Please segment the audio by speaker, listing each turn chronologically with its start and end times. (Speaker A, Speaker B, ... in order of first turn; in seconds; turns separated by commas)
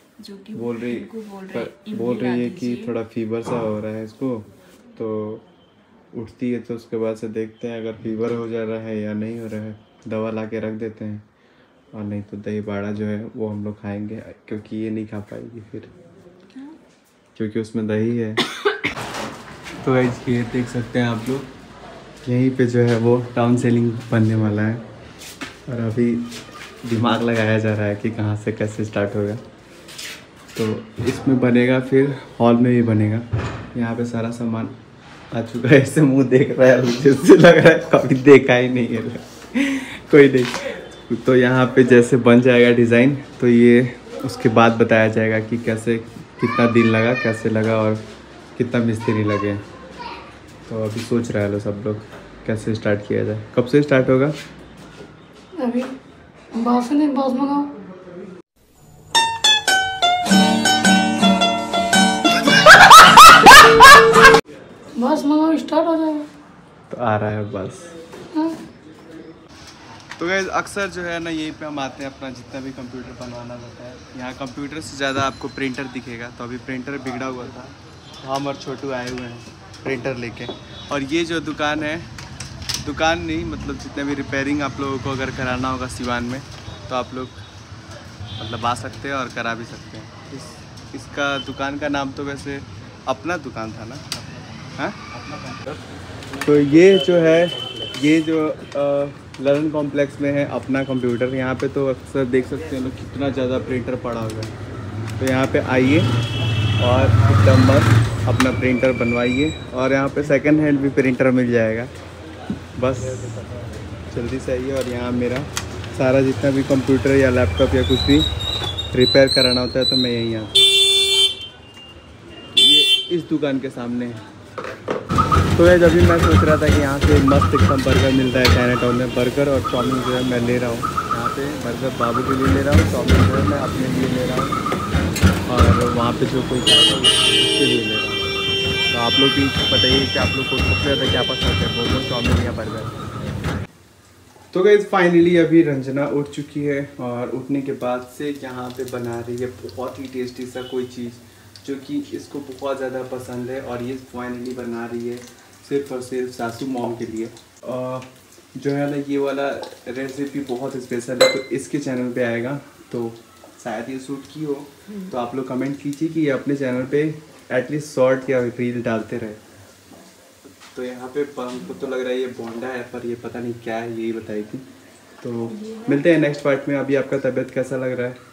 Speaker A: 0.2-3.0, Speaker B: 0.6-5.5, Speaker B: 6.1-11.2, Speaker B: 11.9-15.9, Speaker B: 17.4-18.4, Speaker B: 19.8-21.5, Speaker B: 22.2-24.8, Speaker B: 25.7-29.4, Speaker B: 30.6-34.8, Speaker B: 35.3-48.0, Speaker B: 48.6-49.6, Speaker B: 50.7-54.3, Speaker C: 55.6-56.0, Speaker C: 56.5-57.7, Speaker C: 65.0-66.3, Speaker B: 66.9-67.9, Speaker C: 68.3-68.6, Speaker B: 70.2-82.1, Speaker B: 82.8-87.4, Speaker B: 88.4-94.1, Speaker B: 94.8-95.5, Speaker B: 96.4-104.5, Speaker B: 105.2-106.1, Speaker B: 106.8-111.9, Speaker B: 112.8-113.5, Speaker B: 114.1-118.3, Speaker B: 118.9-120.7, Speaker B: 122.5-124.2, Speaker B: 125.6-134.6, Speaker B: 135.5-138.3, Speaker B: 138.9-142.9, Speaker B: 144.5-169.4, Speaker B: 170.6-174.7, Speaker B: 175.2-178.2, Speaker A: 175.5-176.1